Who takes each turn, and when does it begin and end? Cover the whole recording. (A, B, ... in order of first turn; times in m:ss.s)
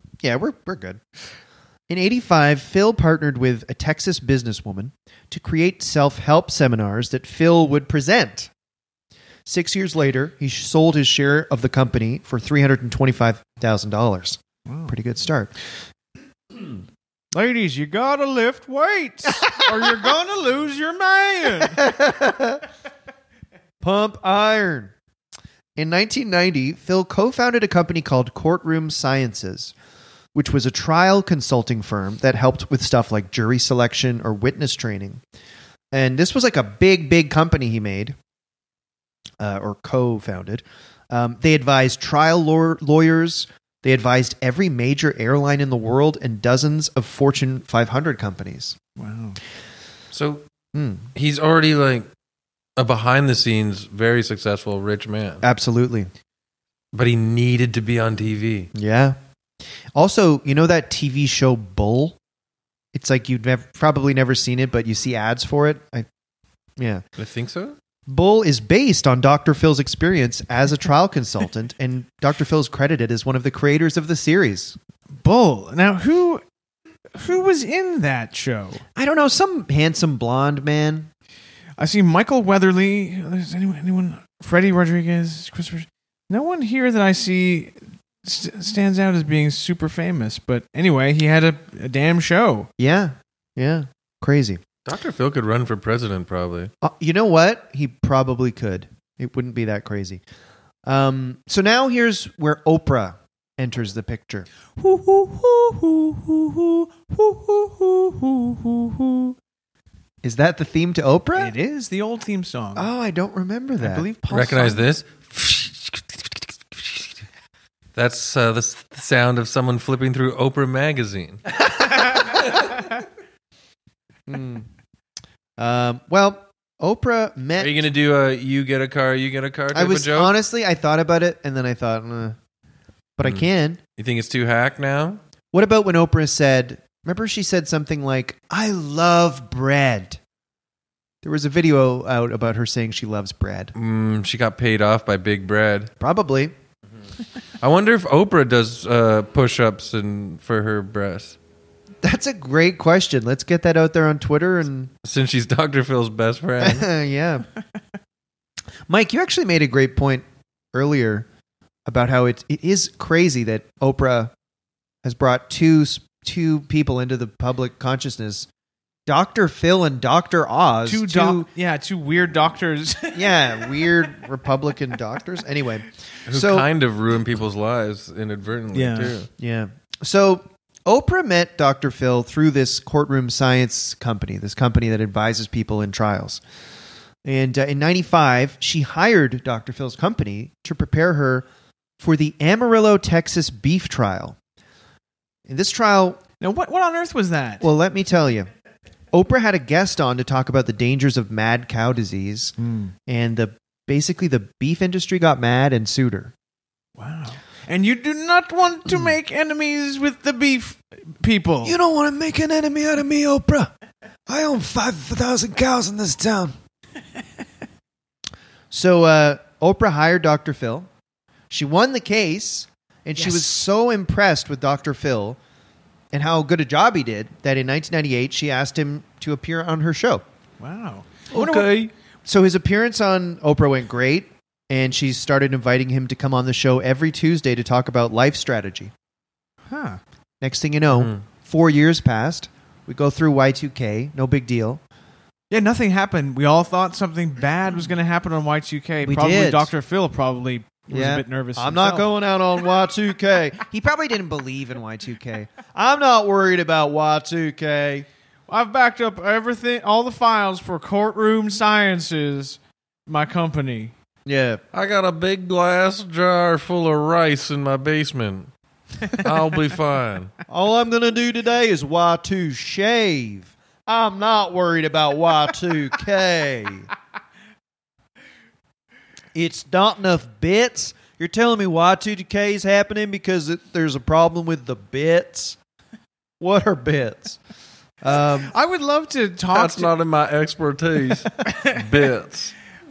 0:00.2-0:01.0 A
0:01.9-0:08.5 A
0:09.5-0:15.5 A
0:14.7-0:15.0 B
0:17.3-0:21.8 B
0:19.5-0:19.9 A
0:21.6-0:22.6 A
0:23.8-0:24.9 A
0:25.8-0:29.7 A
0:30.4-0:35.2 A
0:35.9-0:38.2 A
0:39.4-0:48.8 A
0:49.0-0:49.4 B
0:50.1-0:50.4 C
0:50.8-0:51.1 A
0:51.2-0:52.1 C
0:52.8-0:55.4 C
0:55.4-0:56.1 A
0:56.9-0:58.7 C
0:58.7-0:59.2 A
0:59.9-1:02.2 A
1:02.9-1:06.1 A
1:06.8-1:07.0 A
1:07.2-1:07.8 C
1:08.1-1:14.8 A
1:15.2-1:16.4 B
1:17.2-1:18.8 B
1:19.0-1:21.1 A
1:21.8-1:32.7 B
1:32.8-1:34.6 A
1:34.9-1:36.7 C
1:36.8-1:40.2 A
1:40.9-1:44.5 A
1:44.8-1:49.4 B
1:50.2-1:51.6 A
1:51.4-1:52.9 B
1:52.8-1:54.1 A
1:53.8-1:54.8 B
1:54.3-1:57.1 C
1:58.0-2:01.4 C
2:02.4-2:02.7 C
2:04.3-2:04.7 A
2:05.6-2:07.9 A
2:07.6-2:10.3 C
2:09.7-2:12.4 A
2:13.2-2:13.8 A
2:14.0-2:15.2 C
2:15.5-2:20.2 A
2:21.2-2:23.7 A
2:23.8-2:25.9 C
2:26.0-2:26.5 A
2:27.6-2:31.4 C
2:32.0-2:34.9 A
2:35.0-2:36.9 C
2:36.6-2:37.5 A
2:38.9-2:41.3 A
2:41.9-2:44.3 A
2:45.0-2:48.5 A
2:49.1-2:51.5 A
2:50.9-2:54.1 B
2:53.1-2:56.7 A
2:56.3-2:59.3 C
2:58.7-2:59.2 B
2:59.4-3:06.4 A
3:07.2-3:11.5 A
3:12.0-3:14.4 A
3:15.5-3:16.2 A
3:16.4-3:17.7 B
3:17.6-3:18.5 A
3:19.1-3:22.5 A
3:22.6-3:22.9 B
3:23.1-3:26.3 A
3:27.0-3:31.8 B
3:31.6-3:33.7 A
3:34.3-3:36.6 A
3:38.7-3:40.9 A
3:41.5-3:45.4 A
3:43.2-3:43.6 B
3:46.1-3:50.2 A
3:50.6-3:51.8 B
3:51.3-3:51.9 C
3:52.3-3:58.9 A
3:59.7-4:00.0 B
4:00.4-4:04.8 A
4:00.9-4:01.2 C
4:05.5-4:12.1 B
4:09.0-4:09.7 A
4:10.9-4:18.1 A
4:18.5-4:23.9 B
4:24.3-4:24.6 A
4:24.7-4:28.5 C
4:29.1-4:30.3 C
4:30.5-4:36.9 A
4:39.3-4:45.6 A
4:46.4-4:47.4 A
4:48.0-4:48.5 A
4:48.1-4:49.9 B
4:49.5-4:52.5 C
4:51.4-4:51.8 B